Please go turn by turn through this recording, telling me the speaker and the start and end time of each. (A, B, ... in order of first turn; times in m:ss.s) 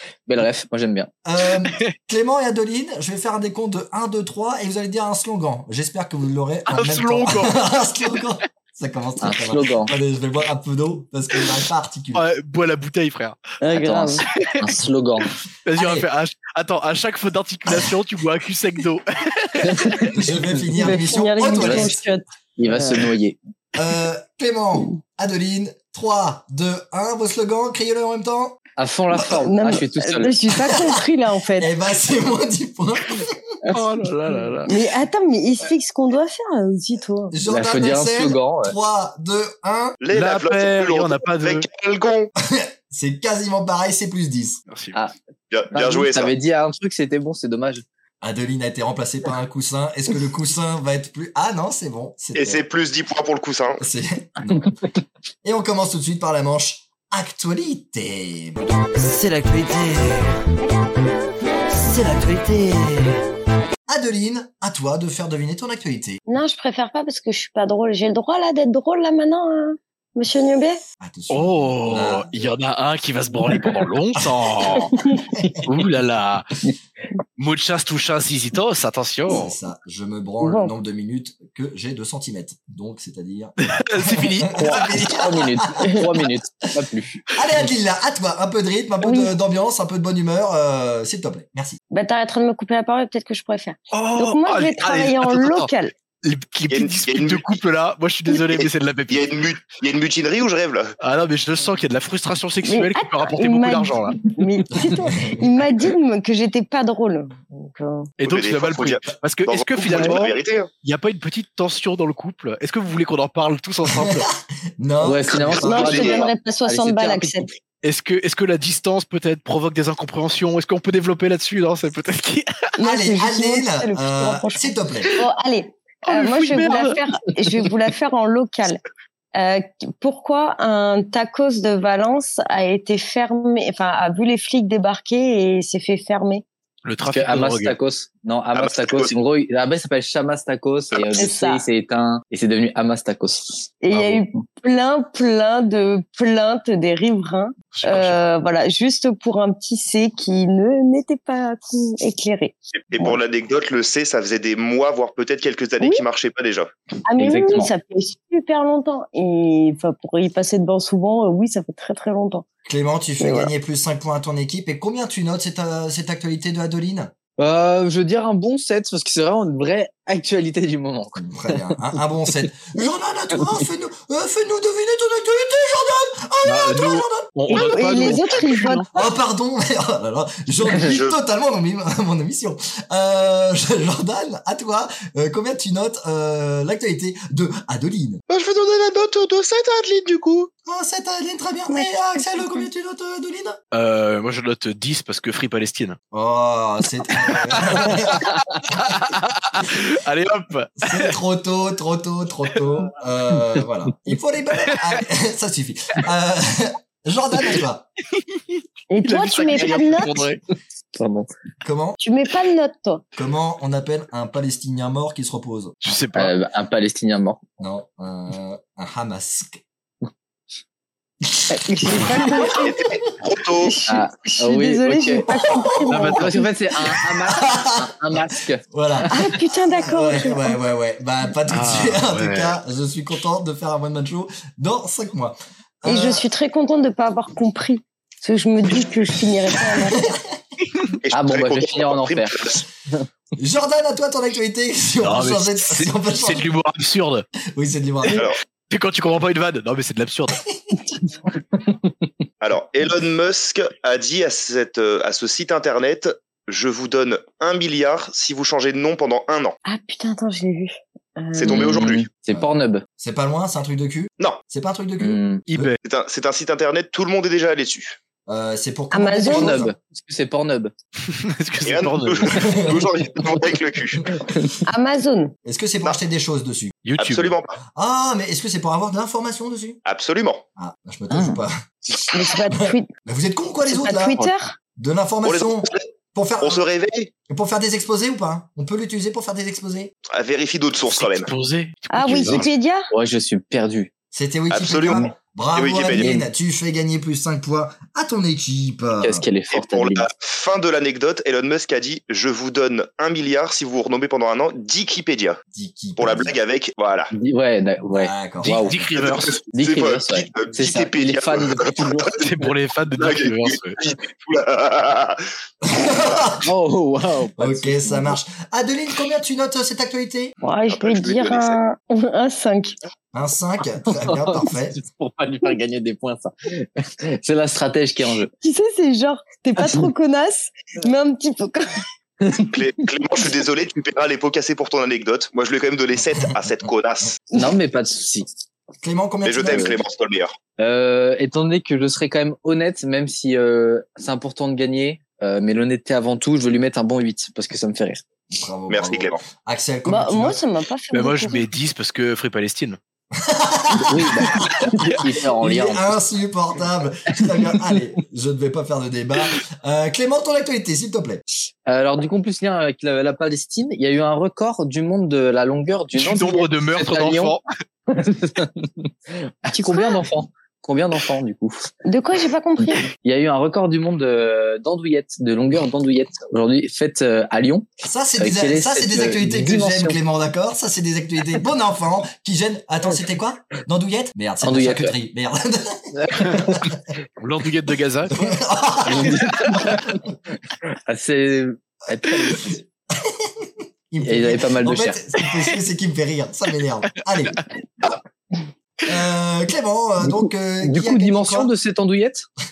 0:00.3-0:01.1 A
0:01.2-0:12.3 B
0:06.7-0:07.6 C
0:09.2-0:09.9 A
0:12.1-0:13.4 C
0:13.6-0:14.3 D
0:13.7-0:16.0 A
0:14.3-0:14.6 C
0:15.6-0:20.1 C
0:19.6-0:20.1 A
0:20.1-0:22.0 B
0:20.8-0:23.0 D
0:21.4-0:21.9 A
0:22.6-0:23.4 A
0:23.8-0:28.6 B
0:28.8-0:30.4 A
0:29.4-0:31.7 D
0:31.6-0:33.4 B
0:33.6-0:34.5 A
0:33.7-0:34.7 C
0:34.7-0:37.4 D
0:37.3-0:40.0 B
0:37.4-0:38.7 A
0:40.0-0:42.3 E
0:40.1-0:41.7 C
0:42.4-0:44.6 B
0:44.7-0:45.0 C
0:45.5-0:46.4 E
0:45.7-0:47.8 A
0:48.2-0:52.6 B
0:52.4-0:53.8 E
0:53.8-0:54.7 B
0:54.5-0:54.9 A
0:55.4-1:00.4 B
1:01.7-1:03.2 B
1:03.9-1:06.2 B
1:06.3-1:10.8 D
1:11.0-1:12.5 B
1:11.3-1:15.0 C
1:14.3-1:15.7 B
1:15.7-1:16.5 C
1:17.4-1:19.6 C
1:19.3-1:26.3 B
1:20.4-1:20.7 D
1:23.6-1:25.2 C
1:24.6-1:27.2 A
1:27.3-1:31.8 B
1:29.0-1:29.3 D
1:31.9-1:35.9 D
1:33.9-1:35.7 C
1:36.2-1:39.3 C
1:36.7-1:37.6 E
1:38.3-1:40.9 E
1:41.0-1:44.2 C
1:42.6-1:48.1 D
1:44.8-1:45.4 B
1:48.2-1:54.3 C
1:48.2-1:50.7 E
1:49.9-1:50.2 D
1:53.8-1:56.0 B
1:55.0-1:57.6 A
1:55.4-1:56.3 E
1:55.6-1:57.5 D
1:57.8-2:02.6 C
2:02.8-2:08.8 D
2:02.8-2:05.1 B
2:06.0-2:07.0 C
2:09.4-2:16.4 D
2:16.8-2:17.8 C
2:17.0-2:24.3 A
2:18.5-2:19.2 E
2:21.2-2:21.6 D
2:23.8-2:33.2 D
2:27.7-2:28.2 C
2:32.8-2:36.7 E
2:37.1-2:42.4 D
2:37.2-2:37.7 A
2:42.6-2:47.1 B
2:43.2-2:43.5 D
2:47.4-2:51.8 A
2:51.2-2:58.2 B
2:56.4-2:58.9 C
2:57.5-2:58.9 D
2:58.9-3:08.2 B
3:00.8-3:01.2 E
3:08.3-3:10.5 E
3:10.7-3:13.6 B
3:11.7-3:12.7 D
3:13.7-3:16.0 C
3:16.1-3:18.3 B
3:17.3-3:21.2 C
3:20.8-3:27.9 B
3:24.7-3:25.0 C
3:28.9-3:30.3 D
3:29.0-3:30.4 C
3:31.0-3:31.3 A
3:31.6-3:32.0 B
3:32.0-3:33.0 D
3:33.2-3:35.8 B
3:35.8-3:36.3 C
3:36.2-3:37.4 A
3:37.6-3:39.6 B
3:41.5-3:42.7 D
3:42.0-3:42.5 B
3:42.3-3:43.8 E
3:43.6-3:46.3 D
3:43.9-3:45.3 A
3:45.3-3:46.0 B
3:45.9-3:46.4 C
3:45.9-3:48.6 A
3:46.8-3:56.2 B
3:49.1-3:50.6 D
3:51.5-3:52.6 C
3:55.8-4:00.1 D
3:59.9-4:00.2 B
4:01.0-4:02.6 E
4:01.1-4:02.4 A
4:03.4-4:06.5 B
4:05.0-4:07.3 C
4:07.5-4:08.3 B
4:08.1-4:08.4 E
4:08.7-4:10.4 C
4:12.4-4:19.6 E
4:19.6-4:21.6 D
4:21.4-4:22.1 E
4:21.5-4:22.8 A
4:22.3-4:25.7 B
4:25.0-4:25.4 A
4:25.5-4:25.8 C
4:25.8-4:28.0 E
4:28.3-4:29.8 B
4:28.9-4:29.6 D
4:29.3-4:30.7 A
4:31.1-4:32.5 C
4:31.6-4:34.2 E
4:32.3-4:32.9 B
4:34.0-4:34.4 B
4:34.7-4:35.3 D
4:35.4-4:36.7 B
4:36.8-4:37.4 C
4:37.0-4:37.6 E
4:37.8-4:39.8 B
4:39.9-4:40.4 E
4:40.6-4:41.6 B
4:41.1-4:41.4 A
4:42.1-4:42.9 D
4:42.5-4:44.3 B
4:43.7-4:44.6 D
4:44.8-4:46.6 B
4:45.2-4:45.9 E
4:46.4-4:47.1 E
4:47.3-4:49.9 B
4:50.1-4:51.3 E
4:50.8-4:52.5 C
4:51.9-4:52.9 D
4:52.9-4:53.9 A
4:54.1-4:59.3 B
4:54.5-4:56.1 E
4:56.0-4:56.3 A
4:59.0-5:00.1 A
4:59.5-5:05.4 E
5:05.5-5:06.4 B
5:06.0-5:07.1 E
5:07.1-5:08.9 A
5:07.9-5:08.8 B
5:08.4-5:09.4 C
5:09.0-5:12.2 E
5:09.5-5:12.5 A
5:12.2-5:13.8 C
5:13.0-5:15.2 E
5:15.6-5:16.5 B
5:15.8-5:16.3 E
5:16.4-5:18.2 A
5:17.4-5:20.3 B
5:20.4-5:22.8 D
5:20.7-5:21.6 E
5:23.1-5:24.8 B
5:23.8-5:28.3 A
5:28.4-5:31.8 D
5:32.3-5:37.2 E
5:36.0-5:37.1 B
5:37.3-5:38.3 A
5:38.8-5:39.8 B
5:39.2-5:40.4 E
5:39.4-5:39.8 A
5:40.6-5:48.0 A
5:48.3-5:50.4 B
5:48.7-5:49.2 E
5:49.9-5:51.5 D
5:50.9-5:52.8 C
5:53.1-6:01.2 B
5:53.8-5:56.0 A
6:01.7-6:07.4 A
6:06.0-6:07.4 C
6:07.9-6:11.7 A
6:11.8-6:12.9 D
6:13.0-6:20.0 A
6:17.8-6:26.8 B
6:24.4-6:25.0 A
6:26.0-6:26.7 A
6:27.2-6:29.8 C
6:28.1-6:30.1 B
6:28.9-6:29.8 A
6:30.9-6:32.6 A
6:32.5-6:37.4 B
6:34.0-6:35.0 A
6:35.2-6:35.5 C
6:37.3-6:37.9 C
6:38.9-6:41.5 B
6:40.0-6:42.3 A